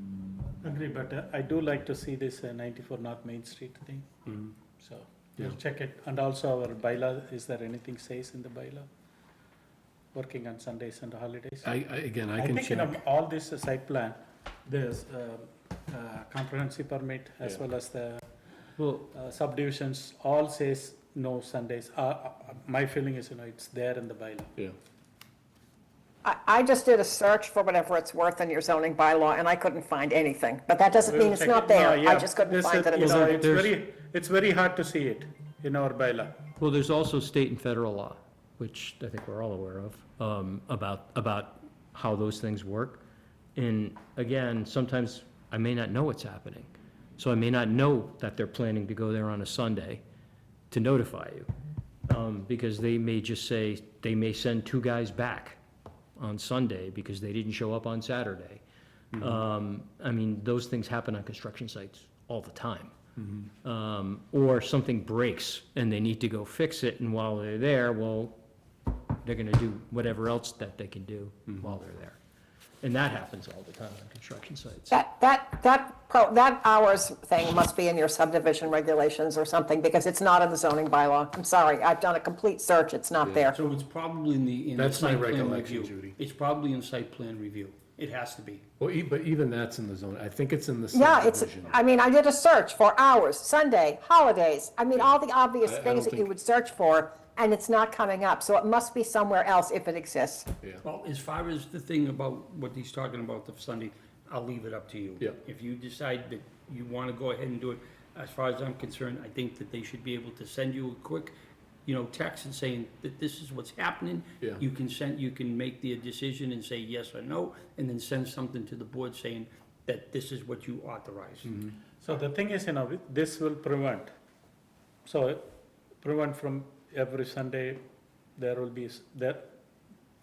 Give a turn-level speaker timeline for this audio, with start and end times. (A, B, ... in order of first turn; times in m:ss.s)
0:00.6-0:04.1 A
0:04.8-0:08.9 A
0:10.1-0:11.7 A
0:11.6-0:12.9 B
0:12.4-0:18.2 A
0:18.8-0:19.1 C
0:19.1-0:24.5 A
0:26.2-0:33.4 D
0:31.0-0:36.4 A
0:33.0-0:33.7 C
0:36.6-0:43.0 C
0:43.6-0:50.0 C
0:50.7-0:51.5 C
0:52.1-0:55.6 C
0:56.2-0:58.6 C
0:59.2-1:02.9 C
1:03.2-1:03.5 B
1:03.6-1:08.4 C
1:09.2-1:12.2 C
1:12.8-1:15.0 C
1:14.9-1:23.6 D
1:23.2-1:23.5 B
1:23.5-1:28.6 E
1:24.8-1:26.2 B
1:28.8-1:31.8 B
1:30.9-1:40.4 D
1:35.0-1:36.3 B
1:40.8-1:51.3 E
1:51.8-2:01.5 E
2:02.0-2:04.1 A
2:05.0-2:05.5 A
2:06.0-2:07.8 A
2:08.4-2:09.5 A